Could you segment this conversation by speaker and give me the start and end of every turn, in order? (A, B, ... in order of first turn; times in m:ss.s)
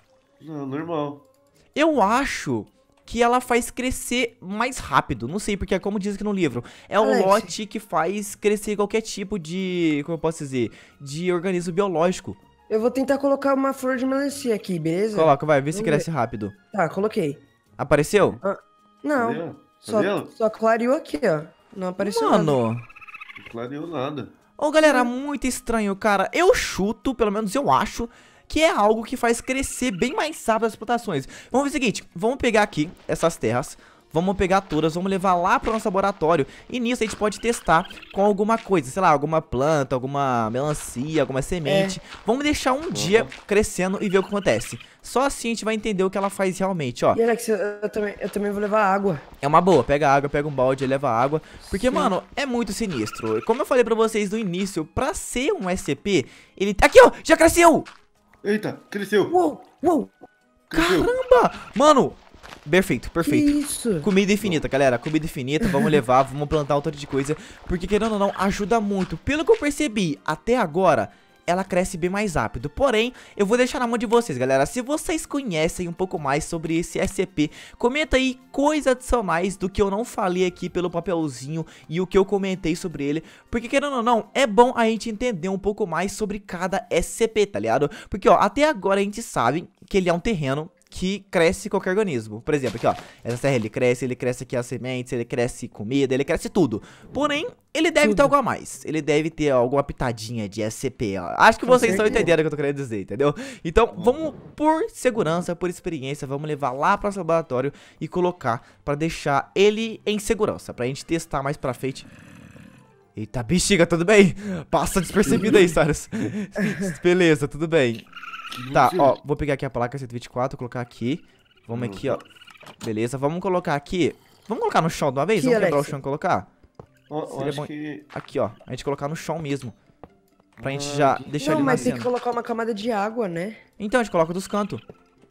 0:00.4-0:01.2 A
0:01.7-0:12.4 B
0:07.0-0:07.5 C
0:12.7-0:16.1 C
0:15.1-0:16.5 B
0:16.7-0:17.4 C
0:17.8-0:18.4 B
0:18.4-0:22.6 C
0:19.2-0:20.3 A
0:22.0-0:22.8 B
0:23.4-0:24.3 A
0:24.6-0:47.2 B
0:24.8-0:25.1 C
0:41.6-0:42.0 C
0:42.9-0:43.3 A
0:47.1-0:49.2 C
0:49.4-0:57.9 B
0:51.6-0:52.1 C
0:58.4-0:59.3 A
0:59.3-1:00.1 C
1:00.7-1:01.1 A
1:00.7-1:52.1 B
1:03.2-1:04.1 C
1:04.4-1:04.7 A
1:38.0-1:38.3 C
1:41.6-1:42.3 C
1:41.8-1:42.3 A
1:43.9-1:44.3 A
1:53.1-1:58.1 B
1:55.2-1:55.8 A
1:58.5-1:59.2 A
1:58.7-2:02.2 B
2:01.7-2:02.2 A
2:02.8-2:06.5 B
2:05.4-2:06.0 C
2:07.1-2:08.1 A
2:07.3-2:09.7 B
2:10.6-2:12.0 A
2:10.6-2:12.1 B
2:11.4-2:13.6 C
2:13.8-2:14.8 B